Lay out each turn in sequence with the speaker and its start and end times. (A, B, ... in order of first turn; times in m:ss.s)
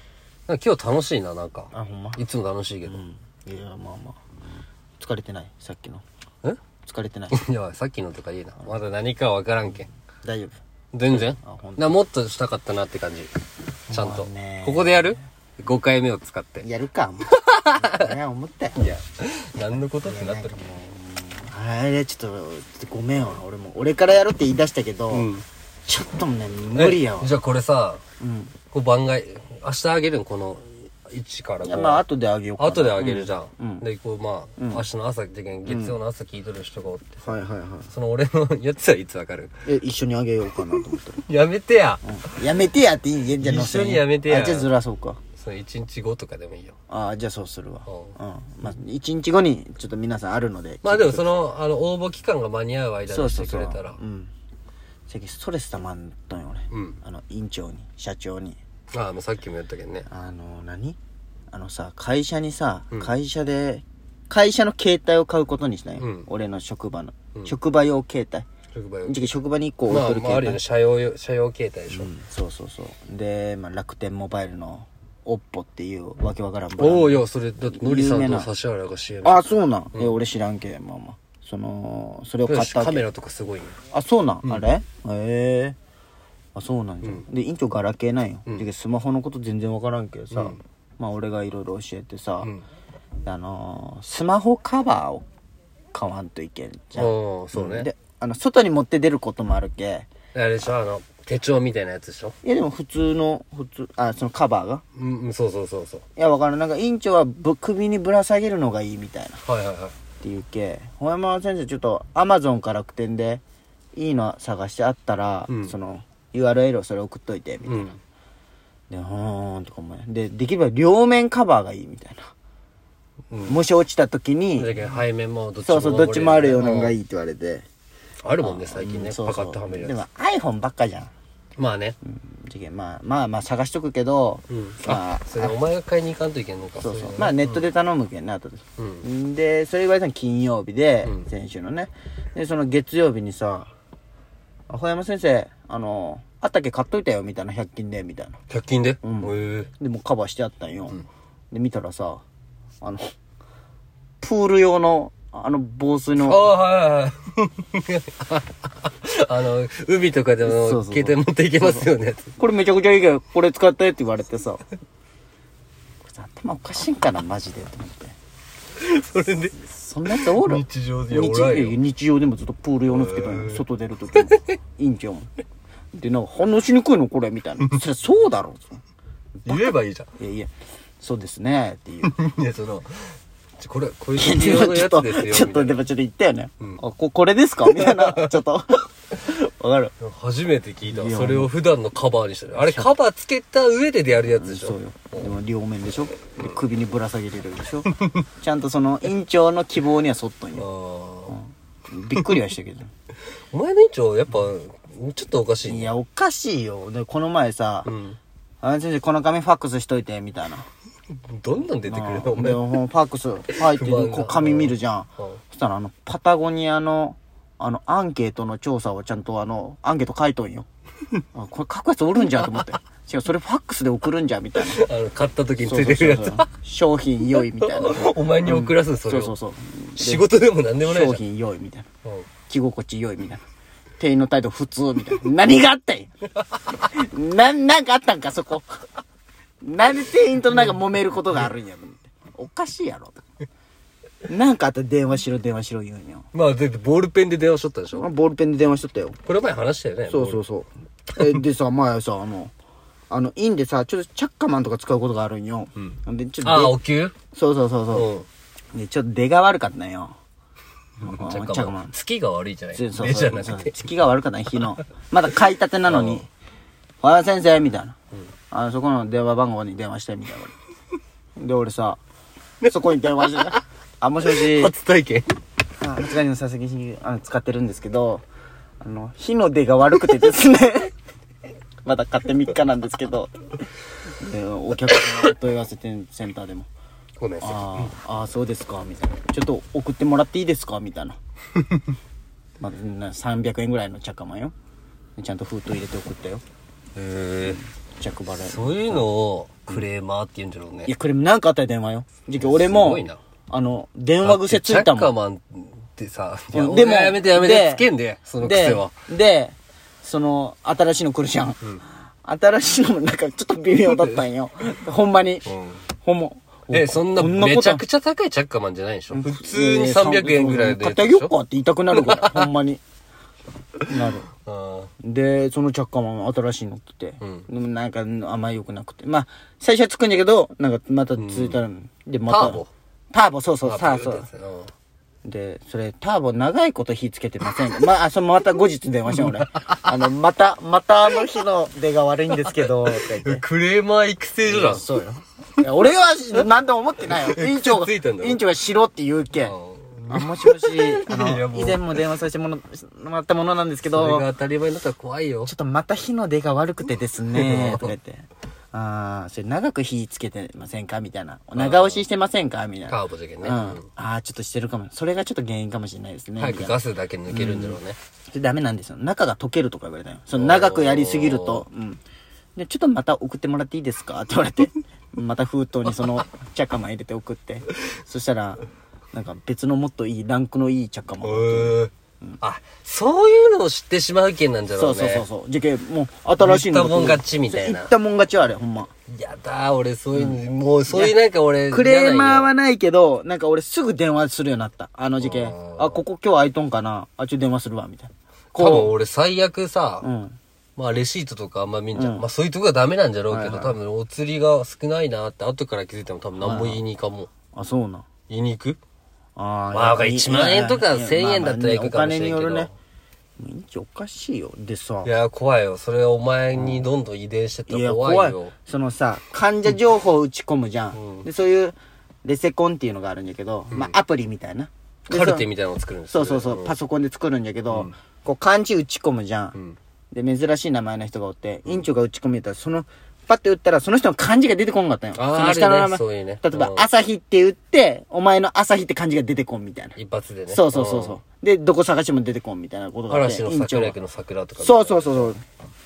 0:00.5-0:03.0 A
0:01.7-0:02.2 B
0:02.8-0:04.2 B
0:05.0-0:06.0 B
0:06.8-0:07.4 B
0:07.3-0:09.9 A
0:10.2-0:10.6 B
0:10.9-0:13.3 A
0:11.1-0:12.0 B
0:13.9-0:15.2 B
0:13.9-0:16.7 A
0:16.6-0:18.9 B
0:17.3-0:18.1 A
0:18.8-0:20.6 A
0:19.7-0:25.3 B
0:25.1-0:25.4 A
0:25.9-0:27.3 B
0:26.8-0:28.0 A
0:28.2-0:28.5 B
0:28.7-0:32.0 A
0:31.6-0:33.8 B
0:32.6-0:37.3 A
0:34.6-0:34.9 B
0:35.7-0:36.0 B
0:37.2-0:37.9 B
0:37.9-0:39.5 A
0:39.7-0:41.2 B
0:40.7-0:42.4 A
0:42.0-0:45.2 B
0:43.4-0:44.7 A
0:45.4-0:46.8 A
0:46.9-0:51.3 B
0:47.9-0:48.2 A
0:50.8-0:54.0 A
0:53.1-0:54.3 B
0:55.1-0:58.6 B
0:56.7-0:57.0 A
0:58.9-1:00.1 A
1:00.1-1:01.0 B
1:01.5-1:08.5 B
1:06.0-1:06.3 A
1:08.7-1:09.2 A
1:09.1-1:10.6 B
1:09.9-1:12.1 A
1:11.9-1:18.5 B
1:16.8-1:20.2 A
1:19.2-1:23.0 B
1:22.5-1:23.8 A
1:23.9-1:25.8 B
1:26.6-1:32.5 B
1:30.3-1:30.6 A
1:33.2-1:35.3 B
1:35.9-1:40.1 B
1:37.0-1:37.9 A
1:40.3-1:42.4 A
1:42.4-1:44.8 B
1:45.0-1:46.0 A
1:46.2-1:49.4 B
1:49.5-1:49.9 A
1:50.2-1:53.4 B
1:54.0-1:57.9 B
1:57.6-1:58.0 A
1:58.9-2:02.3 B
2:03.3-2:03.6 A
2:03.4-2:04.9 B
2:04.6-2:06.9 A
2:05.6-2:07.7 B
2:08.2-2:10.0 A
2:08.4-2:11.1 B
2:11.6-2:12.0 A
2:12.0-2:15.6 B
2:14.5-2:17.7 A
2:16.8-2:23.7 B
2:18.8-2:19.0 A
2:24.7-2:28.4 B
2:28.5-2:29.7 A
2:29.0-2:32.2 B
2:32.8-2:33.1 B
2:34.2-2:36.5 B
2:36.2-2:42.3 A
2:40.4-2:44.6 B
2:46.0-2:48.2 B
2:48.8-2:51.8 A
2:49.6-2:55.3 B
2:52.9-2:53.6 A
2:54.2-2:54.6 A
2:55.9-2:58.8 B
2:59.4-3:00.1 A
2:59.5-3:02.1 B
3:02.0-3:05.8 A
3:04.2-3:09.9 B
3:07.6-3:08.4 A
3:10.0-3:15.3 A
3:10.9-3:11.5 B
3:12.6-3:12.9 B
3:14.3-3:20.7 B
3:18.0-3:18.2 A
3:20.6-3:21.4 A
3:21.3-3:22.9 B
3:23.5-3:25.9 A
3:25.7-3:27.9 B
3:27.9-3:28.2 A
3:28.6-3:30.7 B
3:31.2-3:32.8 A
3:31.9-3:40.7 B
3:33.6-3:35.4 A
3:41.3-3:44.8 B
3:44.6-3:46.5 A
3:45.6-3:50.3 B
3:47.6-3:49.4 A
3:50.0-3:51.2 A
3:50.8-3:51.9 B
3:52.5-3:53.4 B
3:54.0-3:56.1 B
3:56.9-3:58.7 B
3:59.6-4:03.2 B
4:04.3-4:06.3 B
4:06.3-4:08.1 A
4:08.0-4:09.2 B
4:09.3-4:10.4 A
4:10.1-4:12.5 B
4:13.1-4:16.8 B
4:15.8-4:17.2 A
4:17.3-4:18.1 B
4:17.9-4:18.3 A
4:18.7-4:20.1 B
4:21.0-4:21.9 B
4:21.0-4:23.8 A
4:22.7-4:26.3 B
4:25.9-4:26.3 A
4:27.0-4:28.0 B
4:28.5-4:30.5 B
4:31.4-4:32.0 B
4:32.7-4:34.7 B
4:33.3-4:33.6 A
4:34.2-4:35.3 A
4:35.8-4:38.2 B
4:38.8-4:40.9 B
4:41.8-4:43.3 B
4:44.2-4:46.7 B
4:44.9-4:45.2 A
4:47.2-4:47.9 A
4:47.4-4:51.2 B
4:52.6-4:54.5 B
4:55.2-4:56.4 B
4:57.0-4:57.6 A
4:57.4-4:59.0 B
4:58.4-5:00.9 A
5:00.9-5:05.1 B
5:02.4-5:03.2 A
5:04.2-5:08.9 A
5:06.5-5:07.9 B
5:08.4-5:11.6 B
5:12.2-5:15.5 B
5:15.5-5:15.8 A
5:16.0-5:17.8 B
5:16.7-5:21.3 A
5:19.1-5:22.8 B
5:21.9-5:22.5 A
5:23.9-5:24.3 B
5:24.4-5:24.9 A
5:25.0-5:34.3 B
5:27.2-5:27.5 A
5:31.2-5:31.6 A
5:32.3-5:32.7 A
5:33.6-5:34.7 A
5:35.2-5:43.4 B
5:39.1-5:39.9 A
5:42.4-5:44.9 A
5:44.4-5:49.5 B
5:47.0-5:48.4 A
5:49.4-5:52.0 A
5:50.1-5:54.3 B
5:53.8-5:55.5 A
5:55.5-6:06.8 B
5:57.3-5:57.9 A
6:01.6-6:02.0 A
6:02.9-6:03.9 A
6:06.4-6:08.0 A
6:07.3-6:07.8 B
6:08.3-6:12.0 B
6:10.3-6:11.6 A
6:12.6-6:22.4 B
6:21.2-6:25.3 A
6:24.8-6:28.9 B
6:26.4-6:27.9 A
6:29.1-6:32.5 A
6:30.2-6:31.2 B
6:31.7-6:38.9 B
6:35.2-6:36.0 A
6:38.5-6:40.1 A
6:40.0-6:40.4 B
6:40.8-6:47.3 A
6:42.0-6:42.2 B
6:43.3-6:43.8 B
6:46.4-6:46.8 B
6:47.5-6:48.0 B
6:48.3-6:48.8 A
6:49.4-6:52.7 B
6:49.7-6:52.7 A
6:53.4-6:55.1 B
6:55.0-6:58.5 A
6:56.5-6:56.8 B
6:57.7-7:05.5 B
7:00.9-7:01.3 A
7:05.1-7:06.7 A
7:06.1-7:09.6 B
7:10.1-7:20.0 B
7:15.2-7:16.9 A
7:20.0-7:21.2 A
7:20.5-7:24.0 B
7:23.1-7:25.3 A
7:24.6-7:25.4 B